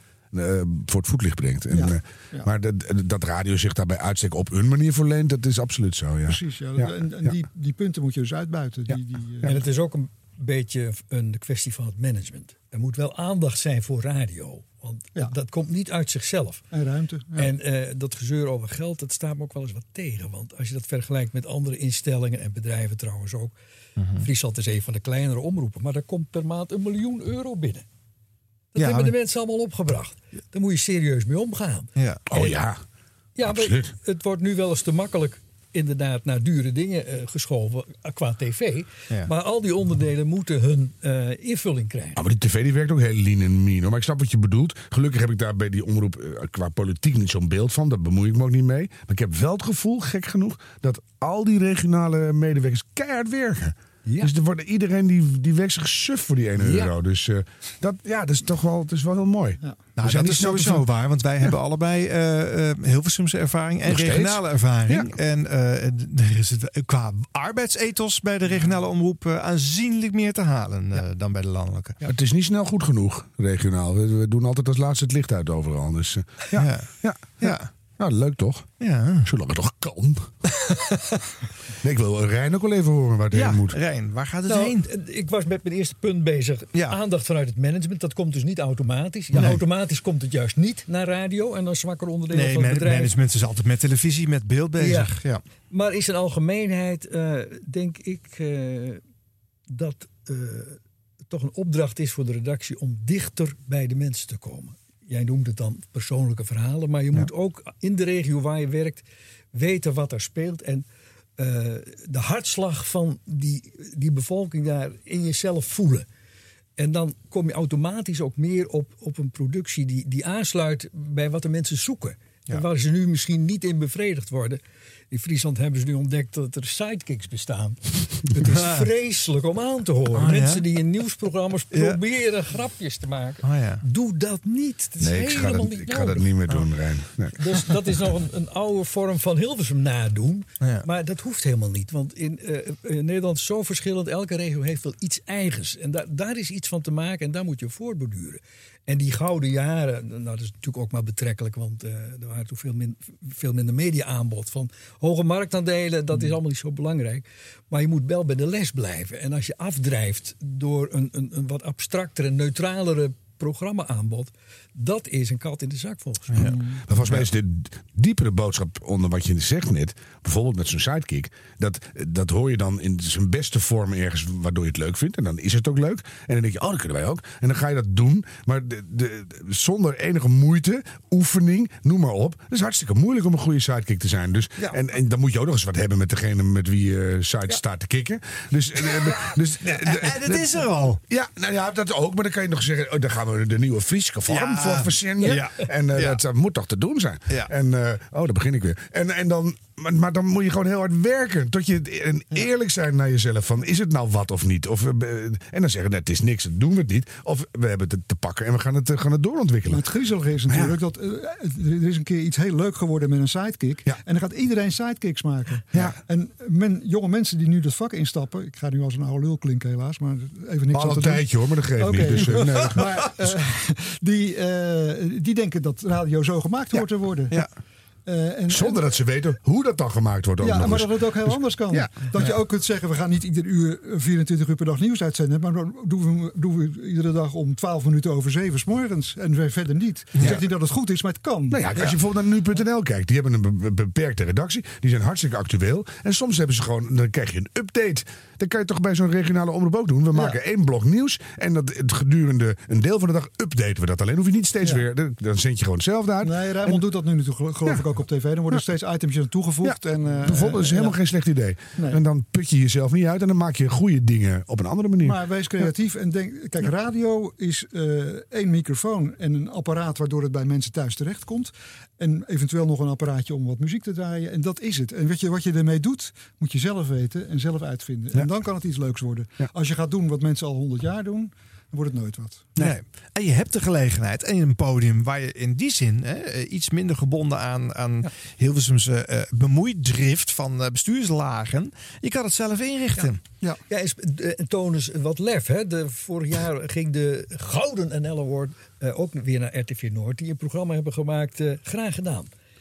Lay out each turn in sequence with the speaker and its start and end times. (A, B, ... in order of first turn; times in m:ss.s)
0:00.3-0:07.4 A
0:01.7-0:02.5 B
0:06.3-0:09.5 B
0:09.4-0:16.6 C
0:16.7-0:17.5 B
0:17.4-0:23.5 C
0:24.0-0:24.2 D
0:24.2-0:27.8 C
0:28.7-0:31.9 C
0:28.8-0:29.1 D
0:32.0-0:32.2 D
0:32.3-0:32.8 A
0:33.4-0:42.2 C
0:33.4-0:33.9 A
0:42.2-1:00.9 A
0:54.0-0:54.3 C
0:56.6-0:56.9 C
1:00.0-1:12.0 D
1:03.8-1:05.1 A
1:12.0-1:18.7 A
1:16.6-1:17.7 D
1:18.8-1:19.3 D
1:19.2-1:20.3 A
1:21.8-1:23.8 A
1:23.3-1:24.8 D
1:24.4-1:33.1 C
1:32.3-1:35.4 D
1:34.8-1:39.0 C
1:39.7-1:50.9 C
1:51.4-1:56.1 C
1:56.8-2:04.6 C
2:05.1-2:16.3 C
2:08.5-2:08.9 D
2:10.1-2:10.6 D
2:11.7-2:12.0 D
2:13.4-2:13.8 D
2:15.0-2:17.3 A
2:17.4-2:46.8 C
2:46.9-3:29.8 A
3:09.7-3:11.0 D
3:14.3-3:16.2 D
3:29.7-3:41.3 B
3:30.5-3:30.8 A
3:40.7-3:42.8 A
3:41.8-3:47.4 B
3:48.0-3:48.8 B
3:48.5-3:51.9 A
3:50.4-4:01.7 B
3:51.7-3:52.3 D
4:01.5-4:16.8 A
4:10.1-4:10.4 B
4:16.2-4:21.0 B
4:19.6-4:25.2 A
4:25.0-4:42.5 B
4:42.6-4:53.2 D
4:53.7-5:02.3 C